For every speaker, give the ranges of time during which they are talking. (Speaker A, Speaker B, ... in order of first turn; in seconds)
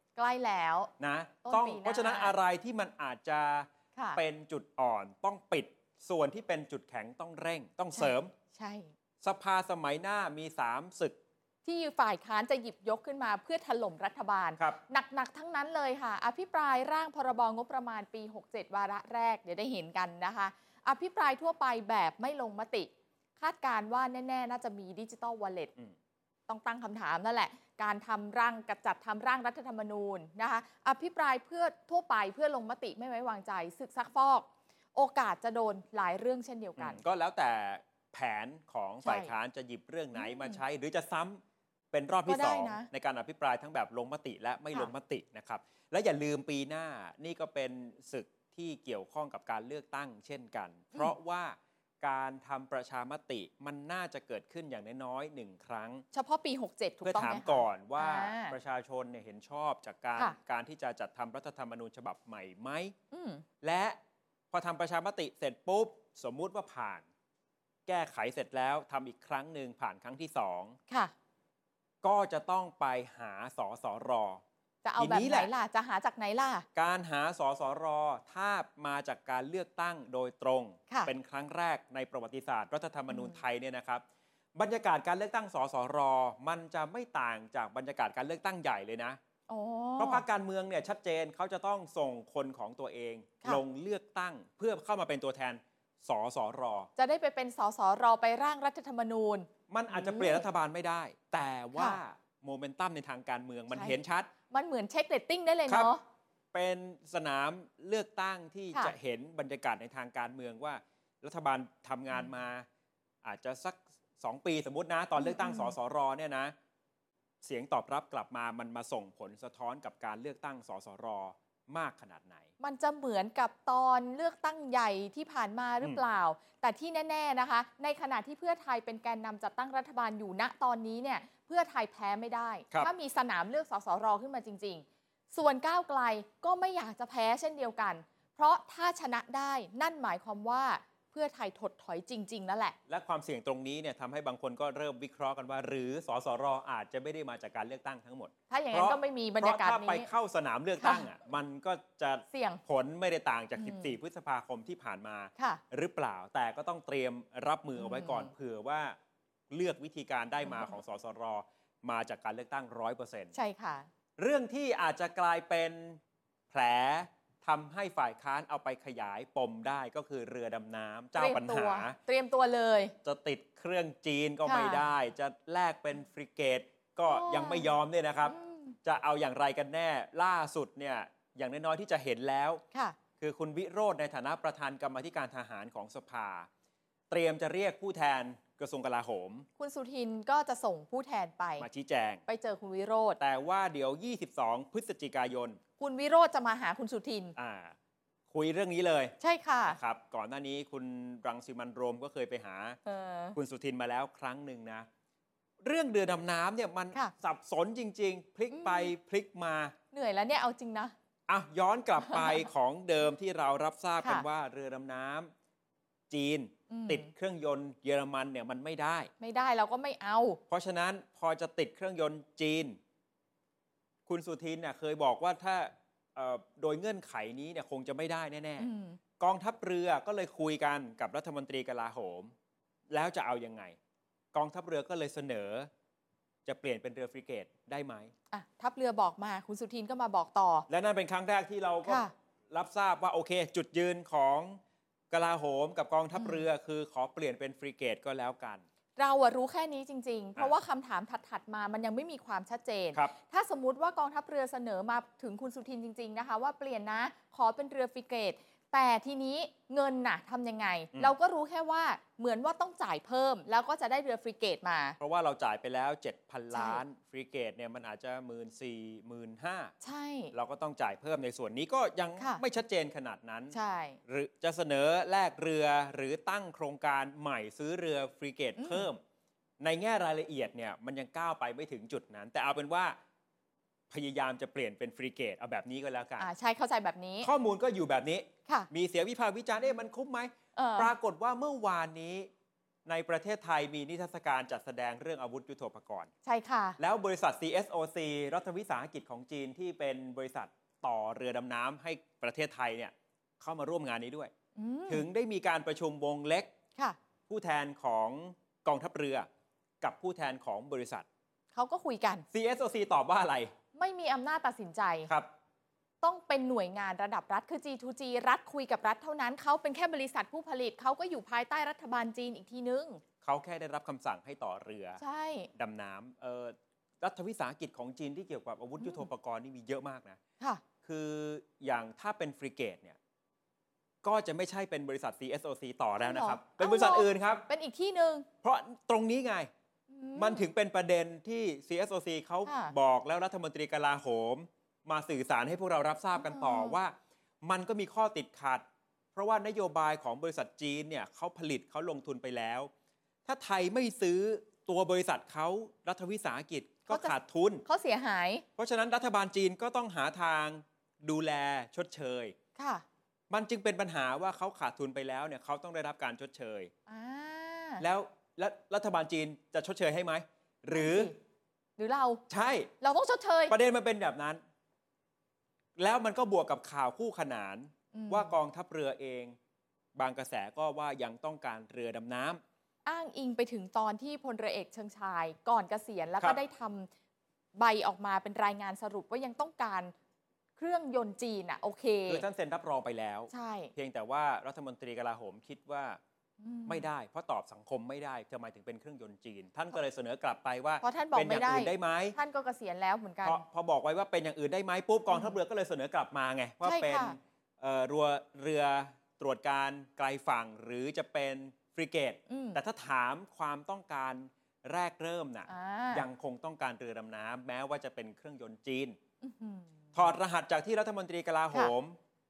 Speaker A: 0.1-0.9, 1.4-2.3, 4.0-4.2, 7.9-8.9, 11.6-25.7, 26.5-37.0, 39.0-39.3, 40.1-40.6, 42.2-42.9, 56.1-58.5, 63.1-63.4, 74.8-76.7, 83.1-83.4, 89.5-90.2, 97.0-100.4, 103.7-104.0, 104.5-106.0, 115.2-115.7, 122.6-142.8, 148.5-150.1, 150.8-151.1, 152.3-152.6, 153.6-153.9, 157.8-158.3, 160.4-160.7, 163.3-163.9, 171.2-172.9, 174.4-174.8, 177.1-177.7, 178.2-178.8, 182.7-183.0, 189.6-191.7, 192.3-193.2, 195.8-197.3, 199.2-199.8, 202.8-203.3, 208.5-208.9, 209.9-210.9, 212.0-212.5, 216.7-217.1, 219.2-220.4, 228.6-229.0, 238.3-240.7, 241.8-242.1, 246.1-246.4, 248.9-265.0, 266.5-266.8, 269.8-270.3, 273.5-274.0, 278.6-278.9, 286.2-287.3, 290.6-290.9, 296.2-296.8, 304.6-305.0, 311.5-312.2, 313.7-315.1, 316.0-323.0, 325.0-325.5, 328.8-329.1, 336.0-338.3, 339.9-340.4, 342.4-342.7, 346.1-346.8, 356.9-357.1, 357.6-358.4, 362.6-362.8, 366.9-367.8, 370.7-371.1, 371.8-372.2, 372.8-373.6, 377.9-378.4, 382.8-386.9, 387.6-389.9, 390.6-392.2, 393.3-393.7, 396.4-396.9, 400.8-403.4, 405.1-405.4, 406.6-407.2, 412.3-412.6, 415.5-416.1, 419.2-419.9
Speaker B: 1.0-8.3, 9.2-11.2, 36.8-56.0, 57.0-62.9, 63.6-64.0, 64.5-67.0, 67.9-70.8, 72.0-74.4, 75.0-75.5, 76.7-84.0, 84.5-89.2, 90.0-96.9, 99.7-104.3, 105.7-105.9, 106.5-112.7, 113.2-116.5, 117.4-122.5, 142.9-158.9, 159.5-163.3, 164.2-172.0, 173.0-182.6, 183.2-186.5, 187.1-189.5, 191.6-192.2, 193.2-195.6, 197.3-197.7, 198.3-199.1, 199.7-202.8, 203.3-204.9, 205.6-209.7, 211.3-215.3, 216.1-219.1, 220.5-222.8, 224.1-228.7, 229.2-232.3, 232.9-233.8, 234.3-235.7, 236.4-238.1, 240.7-248.6, 265.0-269.7, 270.3-273.5, 274.1-279.0, 279.6-282.9, 283.9-286.3, 287.2-292.3, 292.9-296.1, 296.8-304.3, 304.9-306.5, 307.3-309.3, 309.8-311.1, 312.3-313.5, 323.2-325.0, 325.5-330.2, 330.8-333.0, 334.0-337.4, 338.4-339.5, 340.1-352.7, 353.2-357.6, 358.6-362.3, 363.3-366.7, 367.8-371.1, 372.3-372.7, 373.5-374.4, 375.8-379.4, 379.9-382.4, 392.1-396.0, 396.7-402.2, 403.2-419.0, 419.9-422.0